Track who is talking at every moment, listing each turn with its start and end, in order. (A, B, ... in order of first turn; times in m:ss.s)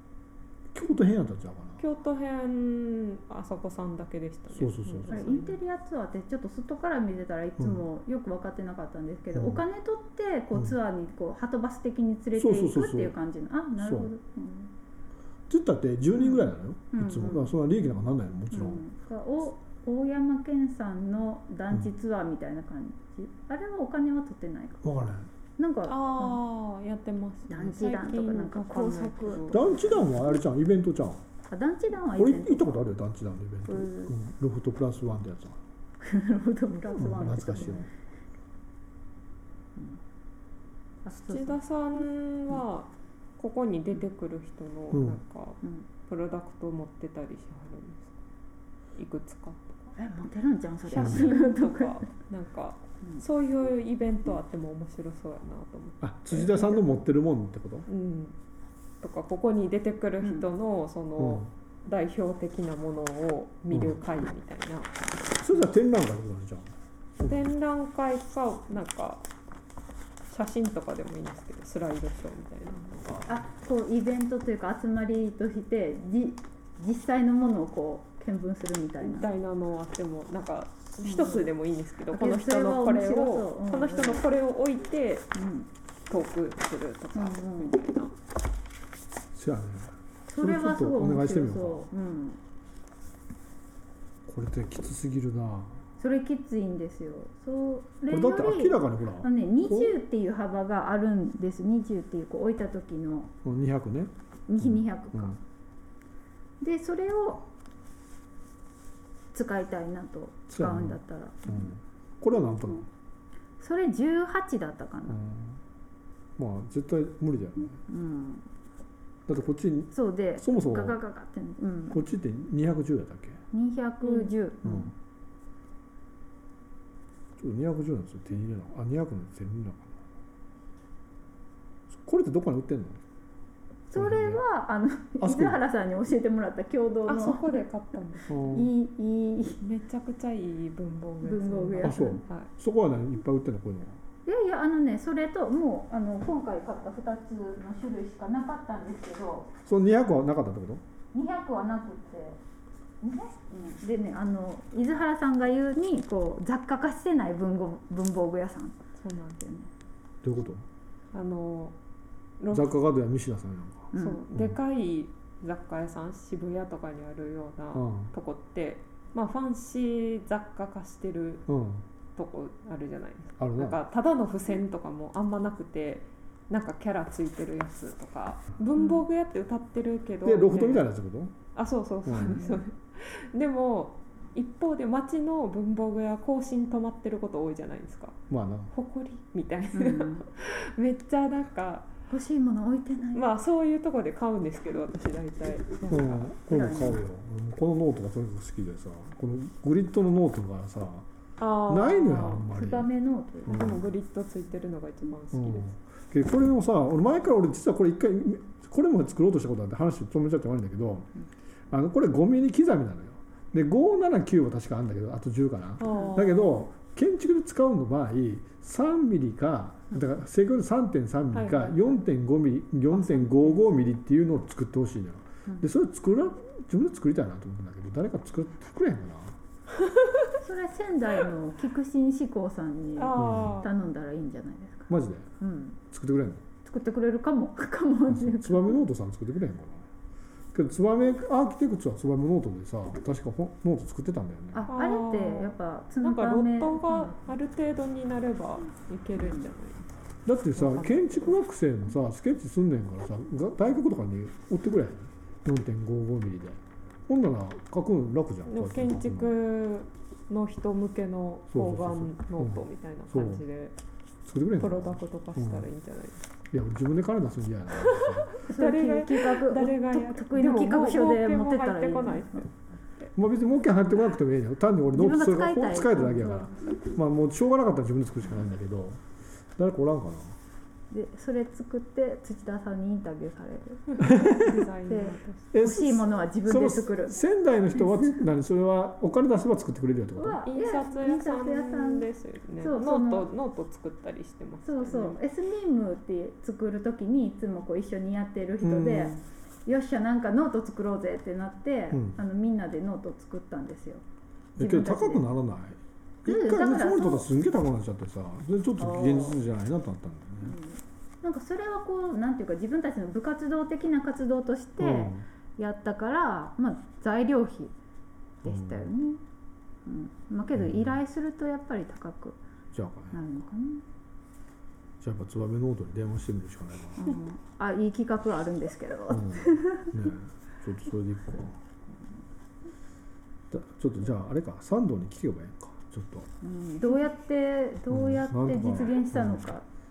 0:00.7-0:01.8 A
0:01.8-0:05.6 B
0:04.5-0:05.2 A
0:05.1-0:14.7 C
0:09.3-0:09.6 A
0:12.4-0:13.1 A
0:13.8-0:14.1 A
0:15.5-0:18.8 A
0:16.2-0:17.5 C
0:18.5-0:24.8 C
0:24.8-0:25.3 A
0:25.6-0:26.4 C
0:25.8-0:29.8 B
0:27.5-0:29.9 C
0:29.5-0:31.2 A
0:31.5-0:32.9 C
0:32.2-0:35.6 A
0:33.7-0:34.1 C
0:36.0-0:37.9 C
0:36.9-0:37.7 B
0:37.0-0:37.9 A
0:41.0-0:41.6 C
0:41.1-0:48.2 B
0:44.9-0:45.2 A
0:49.0-0:49.9 B
0:50.0-0:52.1 C
0:50.9-0:56.8 B
0:51.0-0:51.2 A
0:56.0-0:57.9 A
0:57.9-0:58.4 B
0:59.0-1:04.9 B
1:01.2-1:01.5 A
1:05.4-1:07.4 A
1:07.2-1:09.2 B
1:10.3-1:13.3 B
1:13.3-1:19.3 C
1:19.0-1:25.3 B
1:21.0-1:21.5 C
1:22.1-1:24.2 C
1:25.3-1:25.7 C
1:26.1-1:28.1 B
1:27.1-1:27.8 C
1:29.3-1:31.9 A
1:30.3-1:32.4 C
1:34.3-1:35.8 A
1:36.0-1:43.3 C
1:38.1-1:40.0 A
1:43.4-1:45.4 A
1:44.5-1:45.4 C
1:46.6-1:47.4 C
1:49.3-1:51.7 C
1:50.5-1:52.9 A
1:53.6-1:55.2 C
1:55.1-1:55.6 A
1:56.4-1:57.8 A
1:57.9-1:58.4 C
1:59.3-2:01.0 A
1:59.9-2:02.0 C
2:01.9-2:03.4 A
2:03.5-2:04.9 C
2:04.0-2:04.3 B
2:04.6-2:04.9 A
2:07.4-2:09.9 A
2:11.9-2:13.0 A
2:13.9-2:17.6 C
2:13.9-2:14.4 A
2:15.2-2:15.6 A
2:17.0-2:18.4 B
2:18.3-2:18.7 A
2:18.3-2:19.6 C
2:19.6-2:22.5 B
2:21.2-2:22.2 C
2:21.8-2:24.0 A
2:24.2-2:29.5 C
2:29.6-2:30.8 A
2:31.1-2:32.4 C
2:33.0-2:38.8 C
2:39.0-2:39.4 B
2:39.4-2:39.7 C
2:40.2-2:40.6 A
2:41.1-2:41.8 B
2:42.4-2:42.7 B
2:42.5-2:44.6 A
2:43.9-2:44.2 C
2:43.9-2:51.5 B
2:47.7-2:48.1 A
2:51.5-2:51.8 A
2:52.2-3:00.9 B
2:53.4-2:53.8 A
2:58.8-2:59.0 C
3:00.2-3:01.3 A
3:01.5-3:11.9 B
3:02.0-3:02.4 A
3:02.2-3:02.6 C
3:08.3-3:08.7 A
3:09.7-3:10.2 C
3:12.1-3:13.3 C
3:13.1-3:16.3 B
3:15.9-3:21.0 A
3:16.5-3:17.0 C
3:21.4-3:22.5 B
3:21.7-3:22.9 A
3:22.5-3:23.7 C
3:23.5-3:23.8 A
3:23.5-3:25.7 B
3:25.3-3:31.1 A
3:31.7-3:49.4 A
3:35.8-3:36.5 B
3:41.3-3:42.0 B
3:42.9-3:43.6 C
3:49.8-3:50.3 B
3:50.4-3:55.8 C
3:53.0-3:53.7 B
3:53.2-3:53.5 A
3:54.9-3:55.3 A
3:55.9-3:56.4 A
3:56.6-3:58.8 C
3:58.1-3:59.8 A
4:00.5-4:04.7 A
4:04.5-4:07.2 C
4:04.7-4:09.9 B
4:09.2-4:09.5 C
4:10.2-4:19.3 A
4:10.5-4:11.4 B
4:18.5-4:23.7 B
4:21.5-4:23.4 A
4:24.2-4:25.6 A
4:24.6-4:26.3 B
4:26.5-4:28.3 A
4:27.8-4:33.1 B
4:28.5-4:32.5 C
4:33.1-4:39.0 A
4:34.9-4:36.5 C
4:39.6-4:40.4 A
4:40.9-4:47.2 C
4:43.9-4:45.4 B
4:44.0-4:44.5 A
4:45.5-4:50.4 A
4:47.8-4:48.1 C
4:50.2-4:52.1 C
4:50.4-4:55.2 B
4:52.6-4:53.3 C
4:54.6-5:04.0 C
4:58.6-4:59.2 A
5:01.9-5:02.2 A
5:04.6-5:10.5 A
5:04.6-5:05.2 C
5:06.2-5:07.2 C
5:08.8-5:09.4 C
5:10.4-5:17.7 C
5:14.8-5:15.2 A
5:18.4-5:19.2 C
5:18.4-5:18.9 A
5:19.8-5:22.4 C
5:20.5-5:21.0 A
5:22.7-5:23.2 A
5:23.1-5:23.8 C
5:25.0-5:27.1 A
5:27.0-5:29.9 C
5:29.1-5:31.6 A
5:33.5-5:36.3 A
5:36.4-5:39.6 C
5:37.9-5:39.5 A